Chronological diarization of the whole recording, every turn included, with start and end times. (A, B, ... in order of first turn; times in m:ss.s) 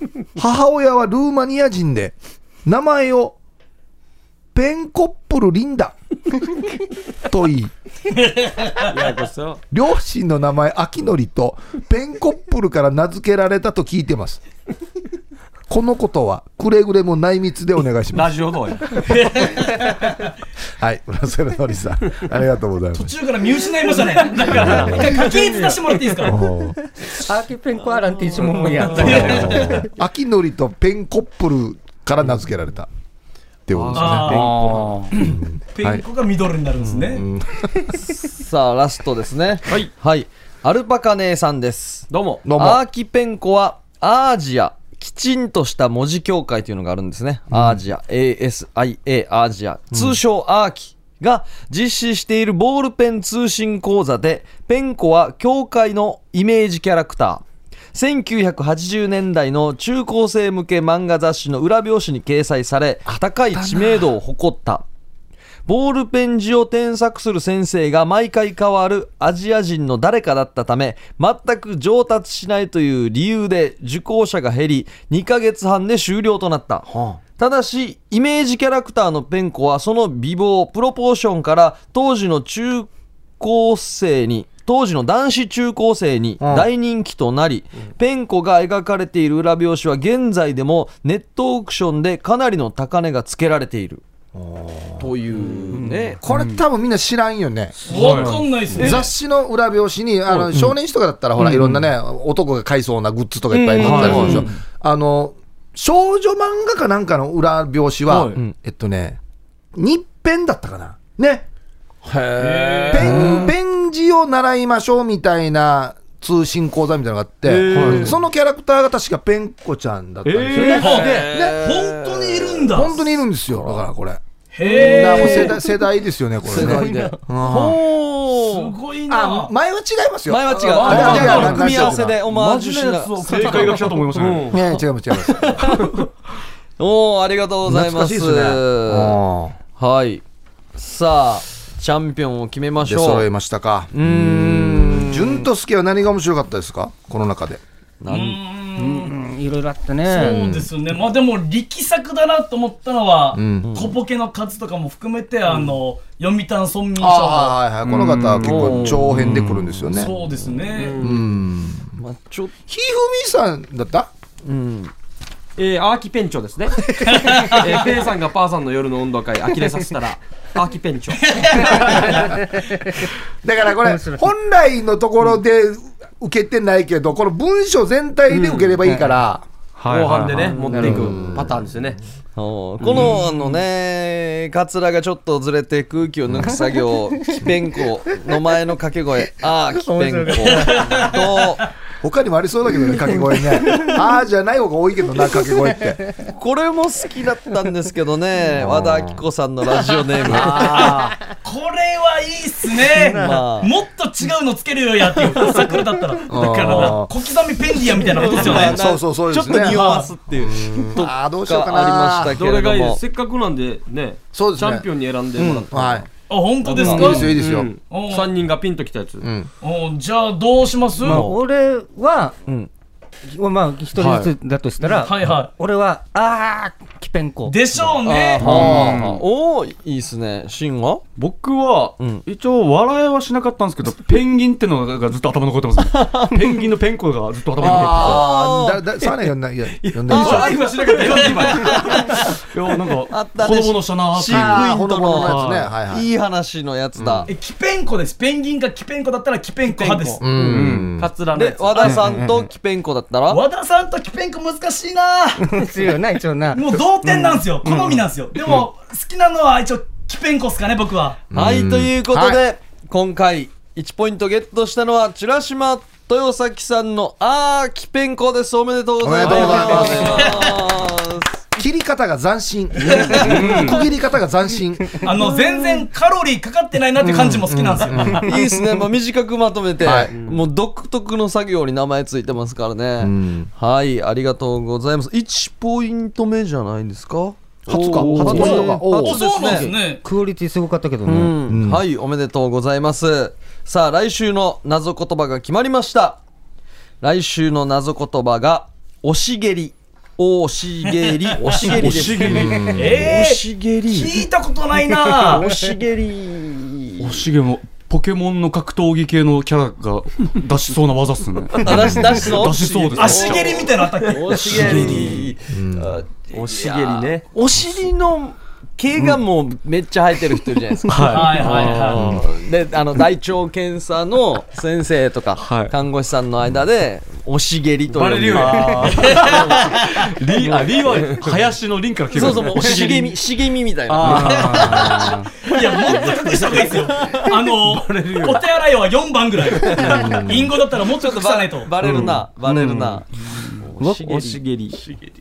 0:00.4-0:03.3 A
0:04.5-0:06.0 A
0:07.3-0:07.7 A
0:08.8-0:09.6 B
0:09.7-0:14.4 A
0:15.7-0:18.4 A
0:18.1-0:19.1 B
0:19.0-0:20.1 C
0:20.8-0:23.1 A
0:22.9-0:26.4 C
0:24.4-0:24.7 B
0:24.5-0:25.2 A
0:25.2-0:25.8 D
0:26.2-0:26.8 A
0:27.0-0:29.9 D
0:28.9-0:29.8 C
0:29.0-0:32.9 A
0:33.7-0:36.0 A
0:33.8-0:34.9 B
0:33.9-0:34.5 C
0:34.0-0:35.1 E
0:35.1-0:37.2 C
0:36.9-0:37.9 A
0:38.0-0:57.4 F
0:39.6-0:39.9 B
0:42.1-0:42.4 B
0:42.4-0:42.8 A
0:47.5-0:47.8 A
0:57.9-1:04.8 F
1:03.1-1:04.1 A
1:05.6-1:34.0 F
1:16.9-1:17.2 A
1:26.4-1:26.7 A
1:34.3-1:35.1 A
1:35.0-1:36.2 F
1:35.7-1:36.6 E
1:36.2-1:49.2 A
1:37.9-1:39.1 C
1:37.9-1:38.8 E
1:38.7-1:39.1 F
1:41.4-1:41.7 E
1:43.5-1:44.5 F
1:43.8-1:44.5 E
1:48.1-1:48.3 B
1:49.7-1:51.4 A
1:52.0-1:53.5 F
1:52.4-1:53.4 E
1:52.9-2:01.6 A
1:57.4-1:58.2 F
1:57.7-1:58.2 E
2:00.2-2:01.3 E
2:00.5-2:03.8 F
2:00.7-2:03.0 C
2:02.7-2:07.8 A
2:04.5-2:05.6 C
2:04.6-2:05.5 F
2:06.4-2:08.7 F
2:06.5-2:07.1 D
2:08.3-2:09.5 C
2:09.1-2:12.2 A
2:10.3-2:13.9 F
2:10.6-2:14.7 B
2:10.8-2:11.6 C
2:13.2-2:14.6 E
2:14.5-2:15.8 A
2:15.4-2:16.0 F
2:16.8-2:19.2 F
2:17.6-2:19.6 A
2:19.8-2:20.2 F
2:20.8-2:23.2 F
2:22.8-2:27.6 A
2:23.9-2:25.5 F
2:28.0-2:28.4 F
2:28.1-2:29.1 C
2:28.8-2:30.7 D
2:30.1-2:37.6 C
2:33.3-2:33.7 A
2:33.6-2:34.0 F
2:37.0-2:40.1 A
2:37.8-2:39.6 E
2:38.4-2:38.9 F
2:38.5-2:39.0 B
2:39.9-2:41.0 C
2:40.7-2:41.3 B
2:41.0-2:41.9 A
2:41.9-2:42.5 F
2:42.7-2:44.1 A
2:44.4-2:44.9 F
2:45.6-2:51.3 B
2:47.0-2:47.7 C
2:51.2-2:52.2 C
2:51.6-2:53.0 D
2:53.4-2:59.4 A
2:53.8-2:54.3 D
2:58.3-2:58.8 B
2:59.8-3:01.0 E
2:59.9-3:02.0 B
3:00.8-3:01.1 D
3:00.8-3:01.6 A
3:02.4-3:11.6 F
3:09.7-3:11.1 D
3:10.5-3:10.9 C
3:12.0-3:16.0 A
3:16.2-3:21.1 F
3:18.5-3:19.2 A
3:20.3-3:28.8 C
3:20.4-3:21.0 D
3:22.9-3:23.4 D
3:23.0-3:23.7 F
3:26.3-3:27.1 A
3:28.1-3:33.0 F
3:28.3-3:32.4 A
3:29.6-3:30.1 C
3:32.4-3:35.9 B
3:34.3-3:34.9 A
3:35.4-3:36.0 F
3:35.7-3:36.0 A
3:36.3-3:37.4 C
3:36.7-3:37.7 A
3:36.7-3:37.2 F
3:37.2-3:39.2 B
3:37.9-3:38.3 C
3:39.2-3:39.5 A
3:39.6-3:41.3 C
3:41.0-3:42.3 D
3:41.1-3:41.4 F
3:43.2-3:47.6 D
3:44.0-3:44.3 E
3:45.0-3:45.5 C
3:47.5-3:48.5 C
3:48.0-3:51.0 F
3:48.4-3:49.2 E
3:48.5-3:49.0 A
3:51.2-3:58.3 E
3:52.0-3:52.2 F
3:55.9-3:56.6 F
3:57.6-3:59.1 F
3:57.6-4:00.5 A
3:59.8-4:02.2 F
4:00.1-4:02.0 E
4:00.3-4:02.2 B
4:01.0-4:01.9 C
4:02.5-4:05.7 E
4:03.0-4:07.3 F
4:04.2-4:06.1 A
4:07.3-4:10.2 C
4:09.8-4:10.2 F
4:10.2-4:11.1 A
4:10.4-4:10.9 E
4:11.0-4:12.1 B
4:11.3-4:13.4 F
4:12.0-4:12.5 D
4:13.3-4:15.6 C
4:15.4-4:16.8 D
4:16.5-4:21.2 C
4:21.3-4:22.4 A
4:21.3-4:31.4 F
4:29.0-4:30.5 A
4:29.3-4:29.6 B
4:31.6-4:35.1 A
4:33.2-4:33.8 E
4:33.4-4:33.8 B
4:35.0-4:38.0 C
4:37.0-4:38.5 A
4:38.1-4:49.7 F
4:39.8-4:40.1 A
4:40.0-4:40.4 B
4:43.0-4:43.5 A
4:47.7-4:49.2 A
4:47.9-4:48.4 E
4:48.0-4:51.4 D
4:49.0-4:50.0 C
4:51.0-4:56.2 F
4:51.5-4:51.8 A
4:57.0-5:04.2 F
5:01.6-5:02.7 E
5:02.2-5:03.0 A
5:02.7-5:05.5 C
5:05.2-5:07.3 F
5:07.0-5:13.6 E
5:11.6-5:31.3 F
5:13.0-5:14.8 C
5:14.4-5:15.3 E
5:15.5-5:16.0 A
5:16.3-5:17.2 B
5:20.9-5:22.3 E
5:21.1-5:22.0 C
5:25.4-5:25.7 E
5:27.9-5:33.2 E
5:28.2-5:28.6 B
5:28.8-5:29.7 C
5:32.1-5:35.1 F
5:33.9-5:35.2 E
5:34.5-5:41.7 C
5:36.5-5:37.3 F
5:37.7-5:38.4 B
5:39.6-5:40.2 F
5:39.8-5:40.5 A
5:40.8-5:44.4 F
5:41.8-5:42.2 E
5:42.5-5:43.0 D
5:44.0-5:44.9 B